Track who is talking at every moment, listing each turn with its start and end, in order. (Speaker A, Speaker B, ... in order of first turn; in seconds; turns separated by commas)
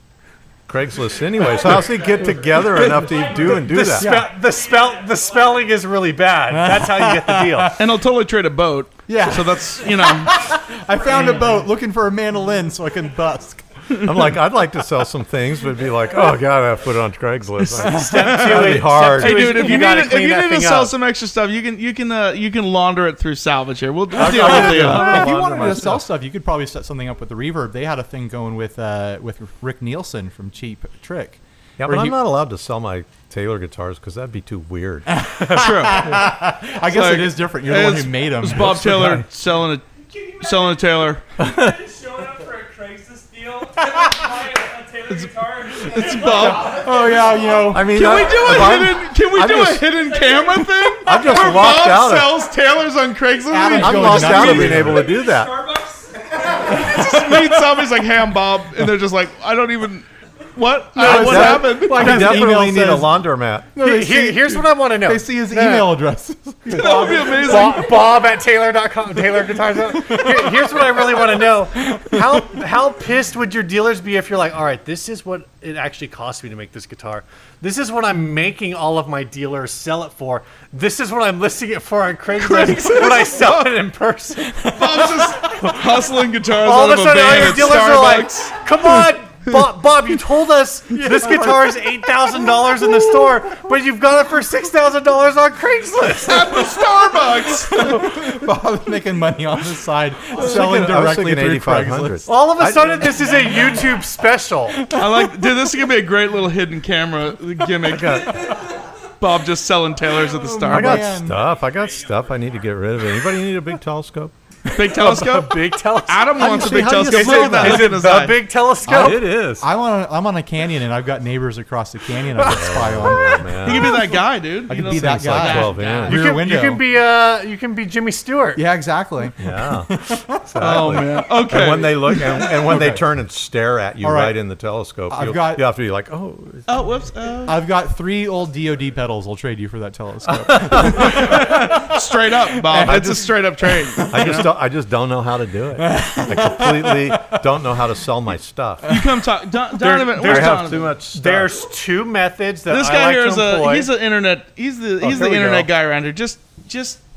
Speaker A: 0.7-4.2, Speaker B: 1.4-5.8, Speaker C: 2.8-7.7, Speaker D: 4.0-4.3, Speaker D: 6.5-7.8, Speaker E: 7.8-10.4, Speaker D: 9.1-13.7, Speaker A: 14.0-19.8, Speaker D: 17.8-18.4, Speaker C: 17.8-20.9, Speaker E: 18.2-25.3, Speaker D: 24.1-32.2, Speaker A: 24.1-26.0, Speaker A: 31.8-35.1, Speaker D: 35.1-39.2, Speaker E: 35.5-36.2, Speaker E: 36.9-39.9, Speaker A: 38.6-39.2, Speaker B: 40.0-48.6, Speaker E: 40.4-41.2, Speaker A: 41.4-41.8, Speaker E: 45.1-46.8, Speaker D: 46.6-48.2, Speaker A: 47.7-49.9, Speaker E: 47.9-55.0, Speaker B: 49.5-51.5, Speaker A: 51.0-52.4, Speaker D: 53.5-55.1, Speaker A: 53.8-55.6, Speaker B: 54.9-56.6, Speaker E: 56.6-62.3, Speaker D: 61.0-68.0, Speaker A: 61.0-63.7, Speaker C: 63.8-66.0, Speaker C: 66.7-85.7, Speaker E: 66.7-67.9, Speaker D: 70.0-71.4, Speaker D: 71.9-72.5, Speaker E: 82.4-83.5, Speaker E: 84.8-88.6, Speaker C: 86.6-97.1, Speaker D: 91.0-91.8, Speaker E: 96.2-98.1, Speaker D: 97.7-102.3, Speaker A: 100.3-103.5, Speaker C: 102.3-104.8, Speaker D: 104.7-105.3, Speaker E: 104.9-108.3, Speaker A: 107.8-108.6, Speaker E: 109.2-111.2, Speaker D: 110.3-111.4, Speaker A: 110.7-114.3, Speaker E: 114.7-118.4, Speaker C: 114.9-119.2, Speaker D: 116.4-118.0, Speaker D: 118.9-126.8, Speaker A: 118.9-119.7, Speaker A: 122.4-124.0, Speaker E: 123.6-125.8, Speaker A: 125.3-126.2, Speaker C: 125.5-128.6, Speaker D: 128.6-130.4, Speaker A: 129.4-136.7, Speaker E: 130.6-132.3, Speaker D: 132.2-133.1, Speaker D: 134.0-134.4, Speaker D: 135.1-135.7, Speaker E: 136.7-137.6, Speaker D: 137.4-144.5, Speaker A: 140.4-141.0, Speaker E: 140.9-144.4, Speaker A: 142.8-143.2, Speaker A: 144.1-148.9, Speaker D: 145.9-147.4, Speaker E: 148.8-150.9, Speaker C: 149.8-153.9, Speaker A: 150.2-151.5, Speaker E: 152.7-157.0, Speaker C: 155.0-155.7